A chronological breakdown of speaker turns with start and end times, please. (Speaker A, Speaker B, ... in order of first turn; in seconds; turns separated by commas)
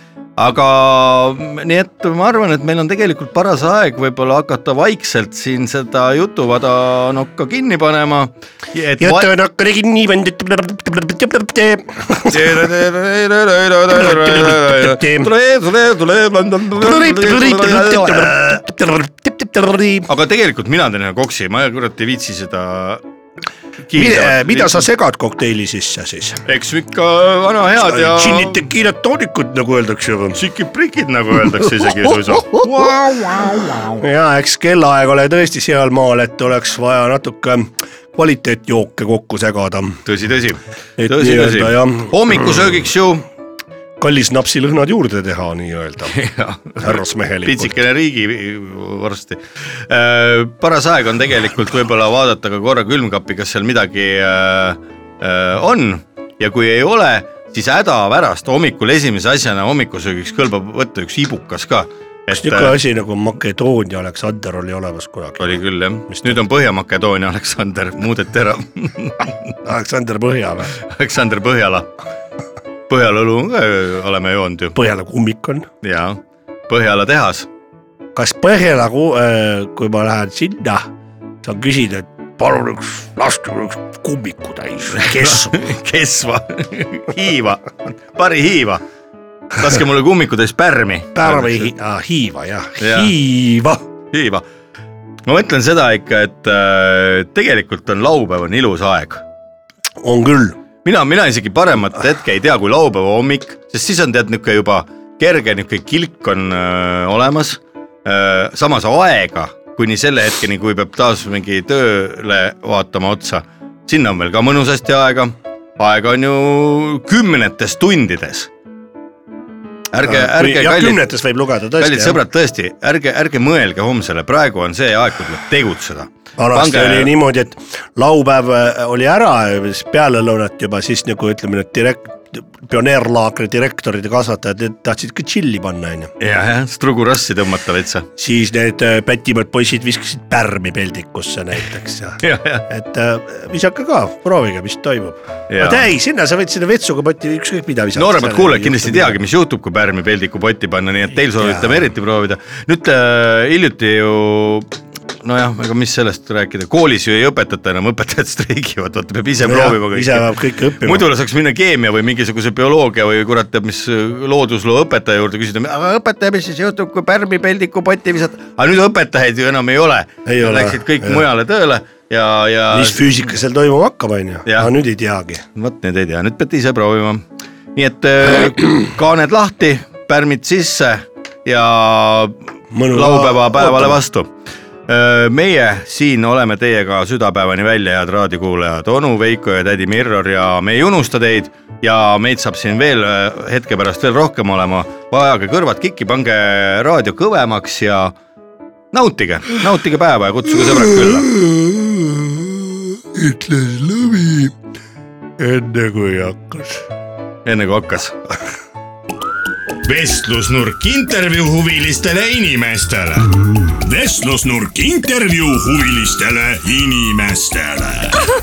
Speaker A: 0.4-9.3, Speaker B: 9.0-12.5, Speaker A: 12.2-18.4, Speaker B: 13.9-15.3, Speaker B: 16.7-20.1, Speaker A: 20.1-23.0, Speaker A: 23.9-24.8, Speaker B: 23.9-26.4, Speaker A: 26.4-28.6, Speaker B: 27.8-30.4, Speaker A: 30.3-34.0, Speaker B: 31.5-40.0, Speaker A: 40.0-43.2, Speaker B: 41.0-42.7, Speaker B: 44.0-46.1, Speaker A: 46.1-62.7, Speaker B: 46.8-47.7, Speaker B: 62.3-66.4, Speaker A: 65.4-69.5, Speaker B: 69.6-70.7, Speaker A: 70.8-71.9, Speaker A: 72.9-74.8, Speaker B: 74.7-75.7, Speaker A: 75.8-77.5, Speaker B: 78.1-80.9, Speaker B: 81.4-85.7, Speaker A: 85.0-88.8, Speaker A: 89.5-91.7, Speaker B: 91.1-93.8, Speaker A: 92.8-93.1, Speaker A: 94.1-94.4, Speaker A: 95.2-99.2, Speaker B: 100.0-100.6, Speaker A: 100.8-118.5, Speaker A: 119.9-121.0, Speaker B: 120.0-122.2, Speaker A: 121.8-127.1, Speaker B: 126.4-136.1, Speaker A: 136.2-138.1, Speaker B: 138.2-149.2, Speaker A: 142.2-142.6, Speaker A: 145.5-145.8, Speaker A: 147.9-160.3, Speaker B: 151.4-151.8, Speaker B: 159.4-161.0, Speaker A: 160.8-173.0, Speaker B: 170.2-171.2, Speaker B: 172.7-175.4, Speaker A: 175.5-177.2, Speaker A: 177.7-184.3, Speaker B: 182.7-184.0, Speaker A: 184.9-198.2, Speaker A: 198.9-201.3, Speaker B: 200.6-204.6, Speaker B: 205.4-206.9, Speaker A: 207.4-208.2, Speaker A: 209.8-213.3, Speaker C: 213.8-218.1